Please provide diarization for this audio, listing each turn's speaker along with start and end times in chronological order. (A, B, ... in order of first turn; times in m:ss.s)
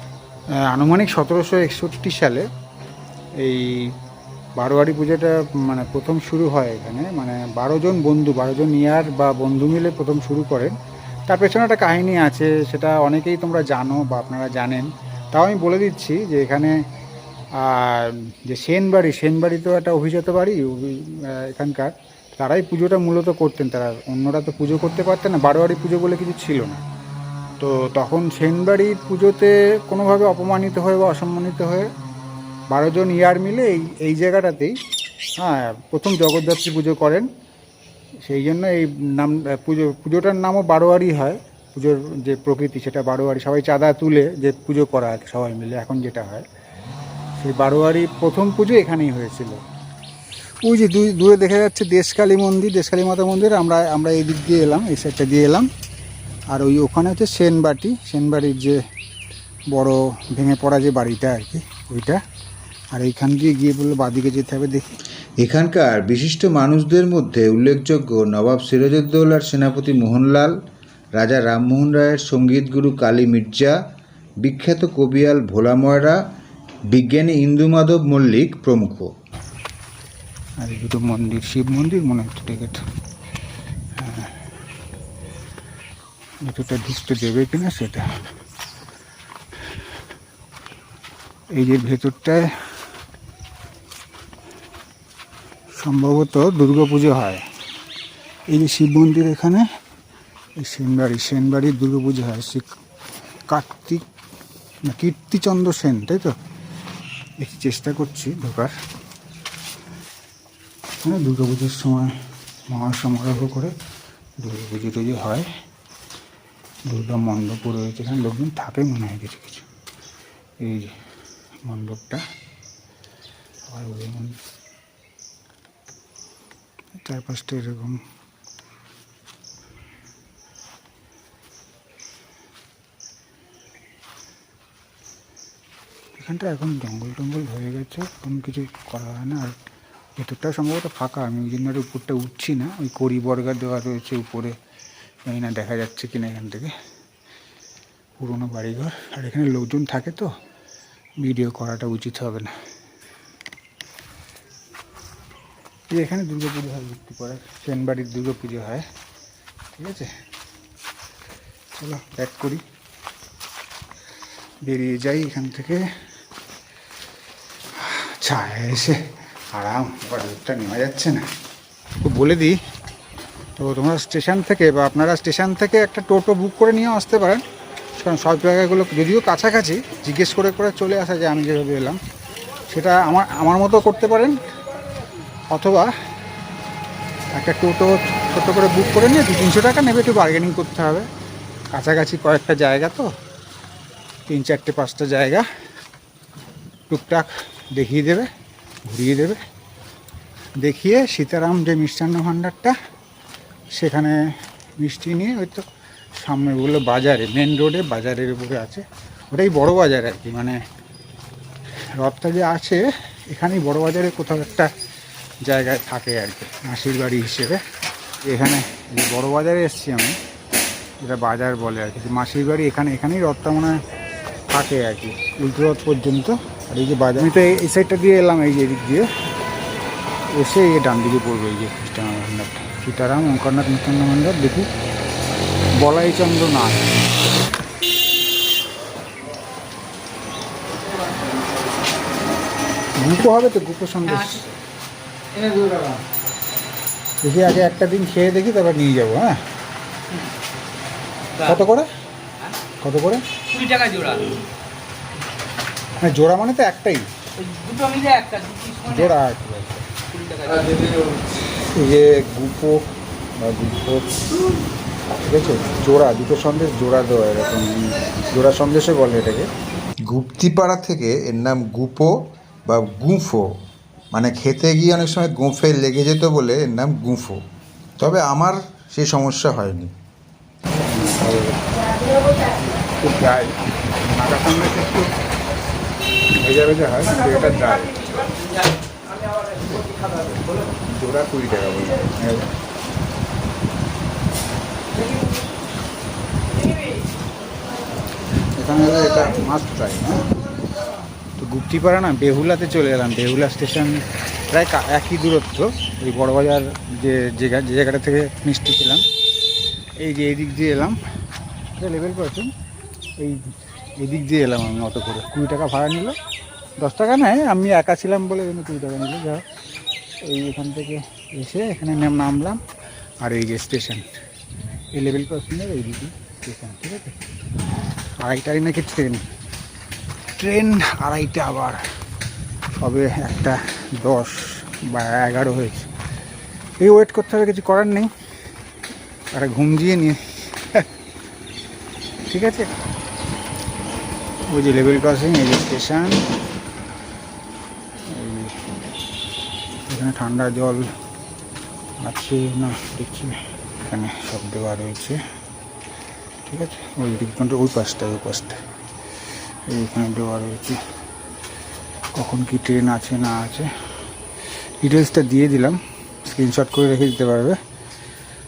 0:00.6-0:02.5 A
0:03.4-0:03.9 A
0:04.6-0:16.8 A
0:17.6-0:26.8 A
0:27.6-0:31.9 A
0:32.7-0:34.8 A
0:35.4-0:37.3 A
0:38.2-0:46.5 A
0:47.4-0:49.6 A
0:50.6-0:55.7 A
0:56.5-0:58.8 A
0:59.7-1:02.2 A
1:02.9-1:04.9 A
1:05.4-1:10.6 B
1:11.2-1:13.8 B
1:14.4-1:16.2 B
1:16.9-1:19.1 B
1:20.6-1:22.8 A
1:24.0-1:24.4 A
1:26.4-1:28.1 A
1:31.5-1:32.5 A
1:35.8-1:37.4 A
1:38.5-1:39.7 A
1:40.6-1:42.8 A
1:43.5-1:44.0 A
1:44.8-1:46.4 A
1:47.4-1:48.7 A
1:51.0-1:52.2 A
1:52.7-1:53.7 A
1:54.4-1:55.5 A
1:56.9-1:59.7 A
2:00.6-2:00.9 A
2:01.6-2:02.2 A
2:03.7-2:04.4 A
2:07.0-2:08.0 A
2:16.2-2:19.6 A
2:20.2-2:24.6 A
2:25.3-2:26.7 A
2:28.2-2:30.3 A
2:31.2-2:32.5 A
2:35.9-2:38.9 A
2:39.8-2:40.1 A
2:41.8-2:42.6 A
2:44.6-2:45.9 A
2:47.8-2:49.0 A
2:49.5-2:51.2 A
2:52.0-2:52.6 A
2:53.6-2:57.4 A
2:58.0-3:02.0 A
3:02.7-3:04.4 A
3:05.5-3:05.9 A
3:07.3-3:11.1 A
3:11.7-3:13.1 A
3:14.3-3:15.4 A
3:16.9-3:18.3 A
3:18.8-3:19.4 A
3:20.6-3:22.8 A
3:23.8-3:24.2 A
3:24.8-3:25.6 A
3:26.2-3:30.6 A
3:32.0-3:34.7 A
3:35.4-3:37.6 A
3:38.2-3:40.2 A
3:41.0-3:43.8 A
3:44.5-3:49.1 A
3:50.3-3:54.7 A
3:55.8-3:56.9 A
4:03.0-4:04.6 A
4:04.1-4:04.4 C
4:05.4-4:06.0 C
4:07.2-4:09.4 A
4:10.1-4:10.3 C
4:11.3-4:11.6 C
4:11.4-4:11.9 A
4:12.8-4:13.2 A
4:13.5-4:14.4 C
4:16.0-4:17.1 A
4:17.4-4:19.2 C
4:18.9-4:19.9 A
4:20.1-4:21.2 C
4:21.8-4:22.9 A
4:23.4-4:24.3 A
4:25.1-4:29.5 A
4:30.0-4:33.5 B
4:34.1-4:37.4 B
4:38.0-4:39.9 B
4:40.8-4:41.8 A
4:42.8-4:45.1 A
4:46.4-4:48.2 A
4:49.7-4:52.5 A
4:58.6-5:00.2 A
5:01.4-5:09.0 A
5:10.0-5:11.0 A
5:11.8-5:12.5 A
5:13.2-5:16.2 A
5:16.8-5:19.4 A
5:20.2-5:22.6 A
5:23.2-5:24.1 A
5:24.9-5:27.2 A
5:28.2-5:29.2 A
5:30.4-5:31.8 A
5:32.8-5:35.9 A
5:36.8-5:38.1 A
5:39.3-5:40.9 A
5:42.3-5:42.7 A
5:44.5-5:46.2 A
5:48.1-5:48.6 A
5:49.9-5:50.9 A
5:52.0-5:55.2 A
5:56.5-5:58.6 A
5:59.7-6:00.8 A
6:02.2-6:03.7 A
6:04.8-6:07.6 A